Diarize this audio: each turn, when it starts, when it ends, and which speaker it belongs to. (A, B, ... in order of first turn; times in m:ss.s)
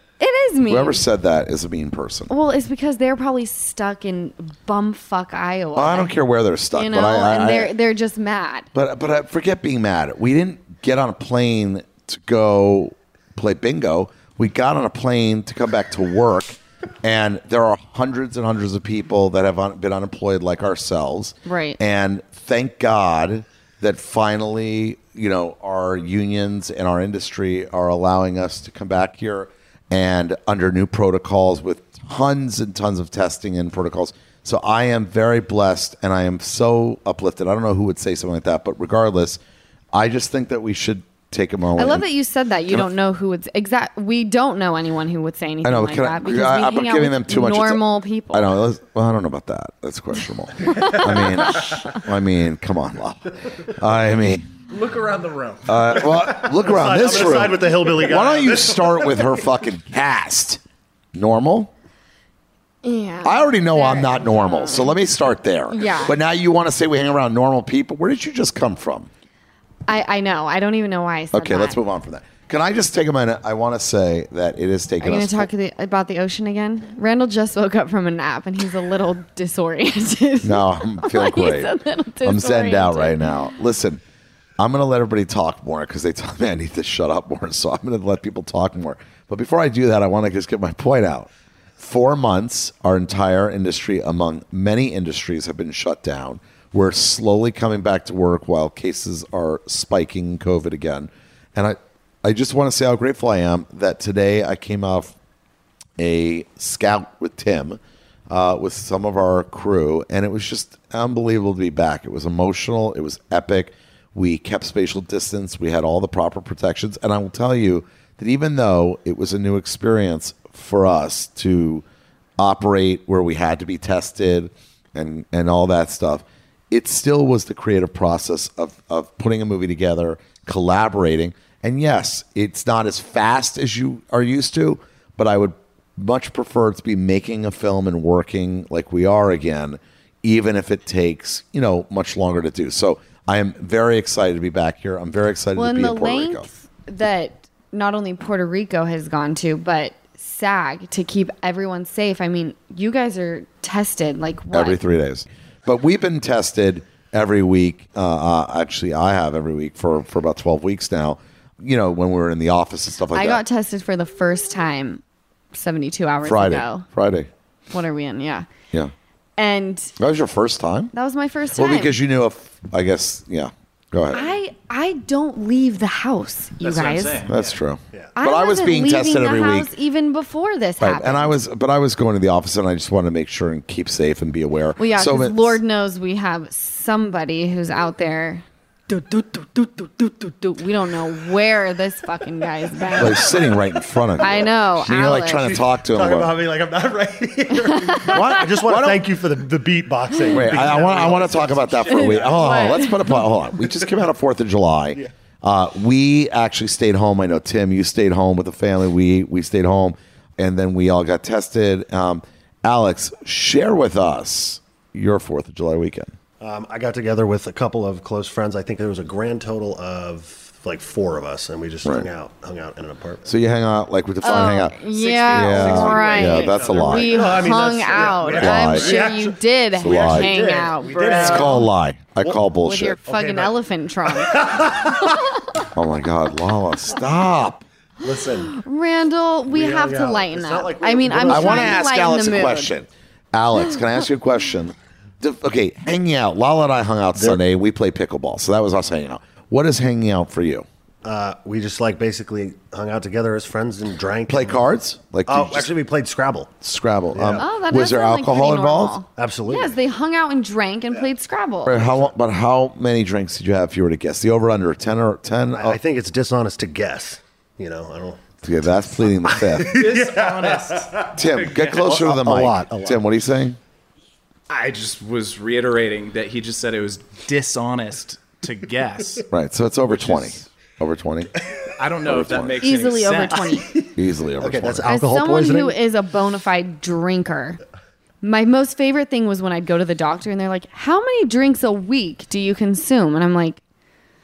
0:00.2-0:01.0 A
0:00.6-0:02.3 B
0:02.3-0:06.1 A
0:05.8-0:07.8 B
0:06.7-0:08.7 A
0:08.7-0:39.4 B
0:21.5-0:21.8 A
0:39.9-0:42.1 B
0:41.8-0:48.5 A
0:45.6-0:54.5 B
0:50.7-0:51.8 A
0:54.7-0:55.8 C
0:55.7-1:00.6 B
0:56.4-0:59.3 D
1:01.1-1:01.7 B
1:02.8-1:05.0 A
1:03.2-1:09.1 B
1:05.7-1:06.2 A
1:09.9-1:11.8 A
1:11.3-1:15.5 B
1:15.0-1:23.3 A
1:20.4-1:24.0 B
1:24.6-1:45.2 B
1:46.0-2:01.8 B
2:02.4-2:26.5 B
2:25.6-2:34.8 A
2:34.5-2:43.4 B
2:43.1-2:46.9 A
2:46.2-2:47.3 B
2:47.7-2:48.5 A
2:49.4-2:49.9 A
2:50.0-2:50.9 B
2:50.9-2:52.0 A
2:51.6-2:54.3 B
2:54.1-2:57.3 A
2:56.6-2:57.6 C
2:57.3-2:59.7 B
2:58.2-3:01.4 A
3:00.8-3:05.6 B
3:04.8-3:13.4 A
3:13.0-3:16.4 B
3:14.2-3:15.5 A
3:15.1-3:22.9 D
3:17.8-3:18.4 A
3:18.1-3:19.0 B
3:20.3-3:36.2 B
3:21.9-3:23.0 A
3:36.4-3:43.3 D
3:41.8-3:42.1 B
3:43.2-3:44.8 B
3:44.2-3:51.7 A
3:44.5-3:51.7 D
3:45.3-3:47.5 B
3:48.2-3:49.0 B
3:49.8-3:50.4 B
3:51.2-3:53.0 B
3:52.6-3:55.3 A
3:53.0-3:53.6 D
3:54.1-3:55.3 D
3:55.7-3:57.6 B
3:58.0-3:58.6 D
3:58.5-4:02.7 A
3:59.5-4:01.8 D
4:01.3-4:10.7 B
4:11.0-4:14.6 D
4:14.3-4:15.7 B
4:15.3-4:16.6 D
4:16.6-4:19.0 B
4:17.1-4:17.4 D
4:17.4-4:21.8 A
4:19.2-4:19.8 D
4:21.6-4:25.8 B
4:21.7-4:22.1 D
4:25.6-4:28.2 D
4:28.4-4:29.8 B
4:29.2-4:33.0 D
4:29.7-4:31.8 C
4:31.2-4:33.6 B
4:34.5-4:39.3 C
4:39.3-4:41.3 B
4:41.8-4:43.6 C
4:42.0-4:42.6 B
4:42.6-4:43.7 A
4:43.5-4:45.8 D
4:44.0-4:44.9 B
4:44.9-4:47.6 A
4:48.2-4:53.6 A